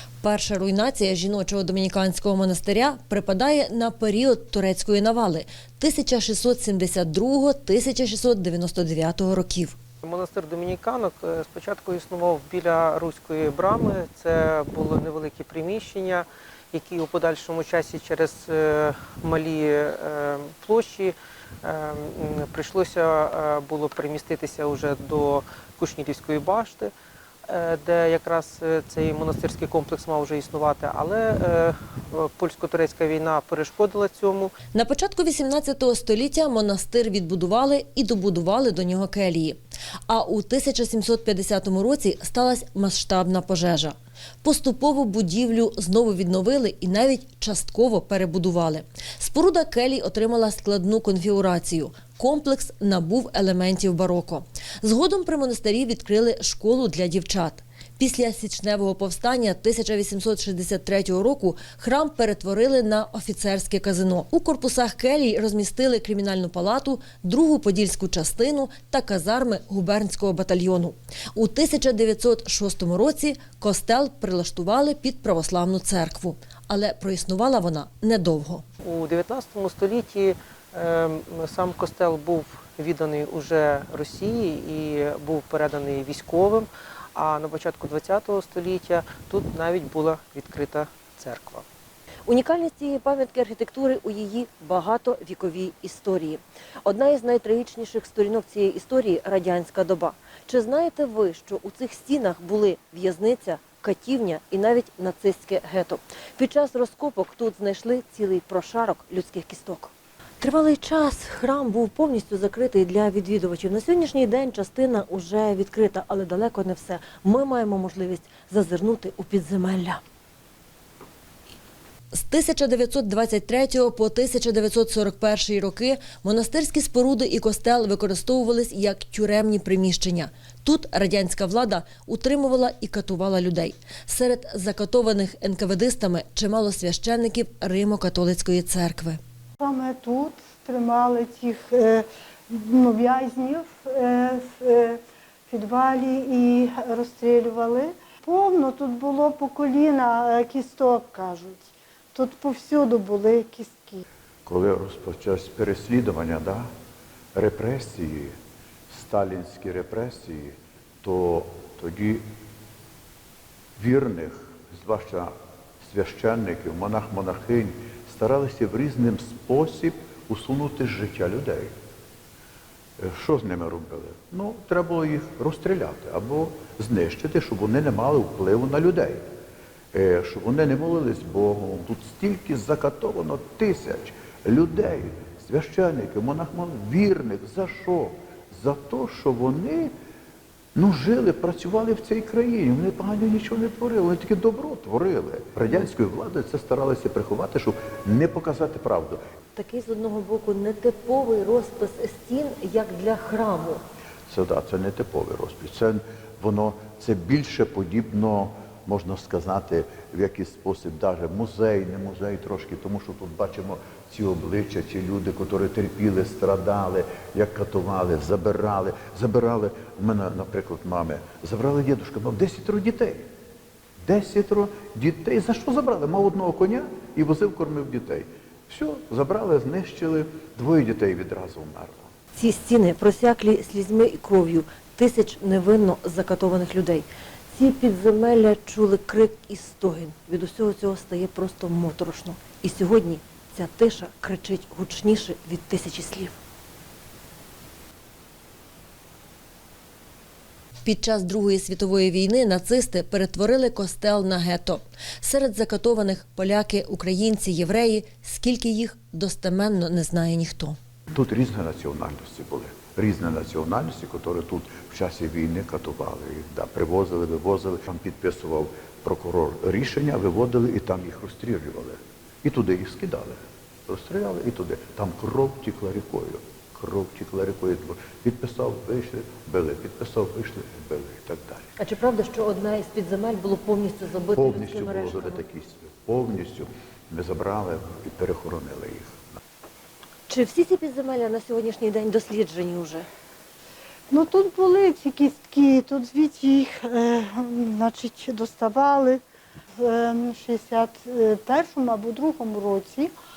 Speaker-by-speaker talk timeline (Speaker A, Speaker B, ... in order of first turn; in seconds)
Speaker A: 0.2-9.8, 34.7-78.6, 92.2-120.0, 122.1-139.2, 199.5-203.8, 232.3-246.4, 250.8-260.8, 281.8-285.4, 290.3-293.1
Speaker B: 10.0-26.9, 27.5-34.5, 78.8-91.6
Speaker C: 139.6-154.0, 294.1-299.2, 299.8-303.1
Speaker D: 154.4-156.7, 157.3-158.3, 158.9-162.2, 163.8-171.7, 173.0-179.2, 179.9-189.9, 190.7-199.2, 204.3-223.3, 224.1-232.1, 261.1-281.7, 284.3-289.1